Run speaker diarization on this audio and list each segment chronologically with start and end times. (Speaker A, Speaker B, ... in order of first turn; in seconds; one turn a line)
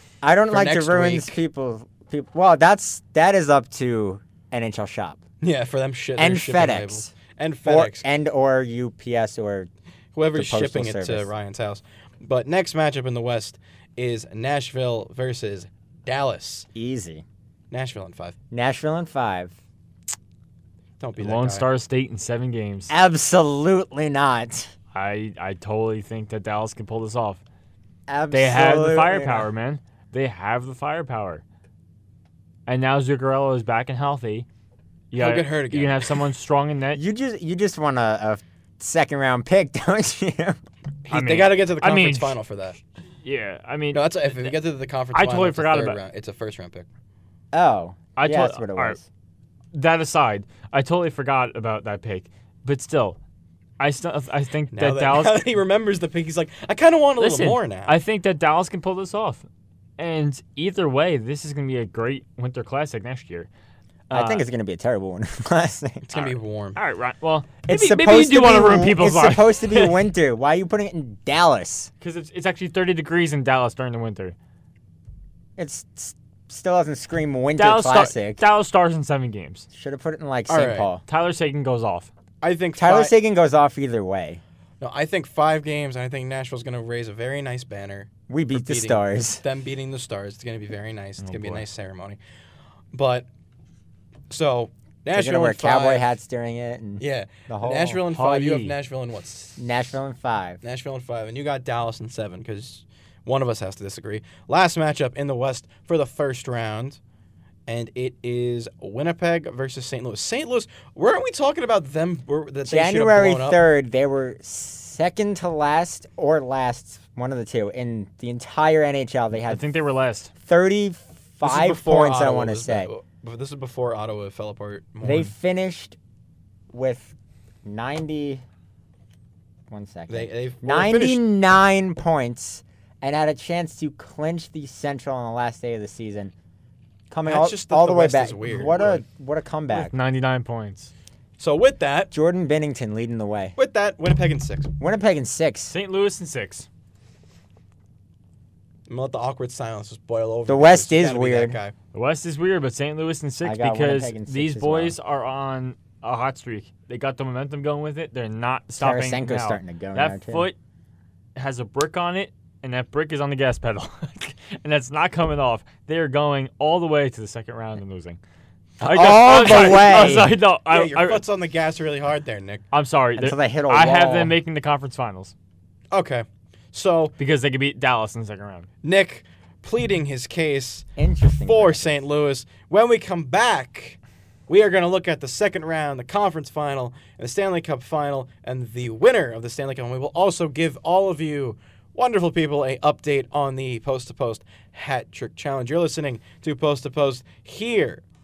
Speaker A: 0.2-5.2
Speaker B: 0.5-1.4
Speaker B: 5.4-8.1
Speaker A: 6.2-7.1
Speaker A: 7.7-9.7
Speaker B: 10.2-16.7
Speaker A: 10.3-11.3
Speaker A: 16.8-17.2
Speaker B: 17.7-18.4
Speaker A: 18.5-19.5
Speaker B: 21.0-21.7
Speaker C: 21.2-22.9
Speaker A: 22.9-24.7
Speaker C: 24.9-27.4
Speaker A: 28.1-29.5
Speaker C: 28.3-31.4
Speaker C: 32.7-34.5
Speaker C: 35.1-37.0
Speaker B: 35.1-36.3
Speaker A: 36.9-40.6
Speaker B: 41.0-42.8
Speaker C: 41.1-42.4
Speaker C: 43.2-44.5
Speaker B: 43.9-46.9
Speaker C: 45.1-46.0
Speaker A: 47.5-49.1
Speaker C: 48.2-49.0
Speaker C: 49.7-53.2
Speaker C: 53.8-55.4
Speaker B: 54.7-58.0
Speaker C: 57.2-59.5
Speaker C: 60.0-63.5
Speaker C: 64.1-64.4
Speaker A: 64.1-66.1
Speaker B: 66.1-66.8
Speaker C: 66.2-70.0
Speaker A: 67.7-71.9
Speaker C: 72.0-74.3
Speaker A: 75.6-78.4
Speaker C: 77.6-79.7
Speaker A: 79.7-81.0
Speaker B: 80.5-80.9
Speaker C: 81.1-82.1
Speaker B: 82.4-83.1
Speaker A: 82.8-84.4
Speaker B: 84.8-92.2
Speaker A: 88.3-89.4
Speaker C: 91.2-91.7
Speaker B: 92.9-93.3
Speaker B: 94.3-96.1
Speaker A: 95.1-98.1
Speaker B: 97.0-99.6
Speaker C: 98.1-98.7
Speaker A: 99.6-100.6
Speaker B: 100.6-107.0
Speaker B: 107.7-113.6
Speaker A: 112.7-119.7
Speaker C: 119.5-120.3
Speaker A: 120.4-122.9
Speaker B: 121.4-125.3
Speaker A: 125.0-126.0
Speaker A: 126.7-127.1
Speaker A: 127.7-128.4
Speaker A: 129.7-136.3
Speaker B: 130.1-131.2
Speaker A: 137.1-139.9
Speaker B: 137.2-139.0
Speaker C: 139.7-140.9
Speaker B: 141.4-142.1
Speaker A: 142.1-143.6
Speaker B: 143.6-144.7
Speaker A: 144.8-145.7
Speaker C: 145.7-146.7
Speaker B: 148.9-151.7
Speaker A: 150.5-151.6
Speaker C: 151.9-160.6
Speaker A: 153.4-155.0
Speaker A: 158.8-160.5
Speaker C: 161.4-168.2
Speaker A: 168.8-170.4
Speaker C: 168.8-171.2
Speaker B: 169.0-172.7
Speaker C: 172.7-175.3
Speaker A: 173.2-174.4
Speaker B: 175.9-177.2
Speaker C: 177.2-178.7
Speaker B: 178.8-198.0
Speaker A: 181.0-182.0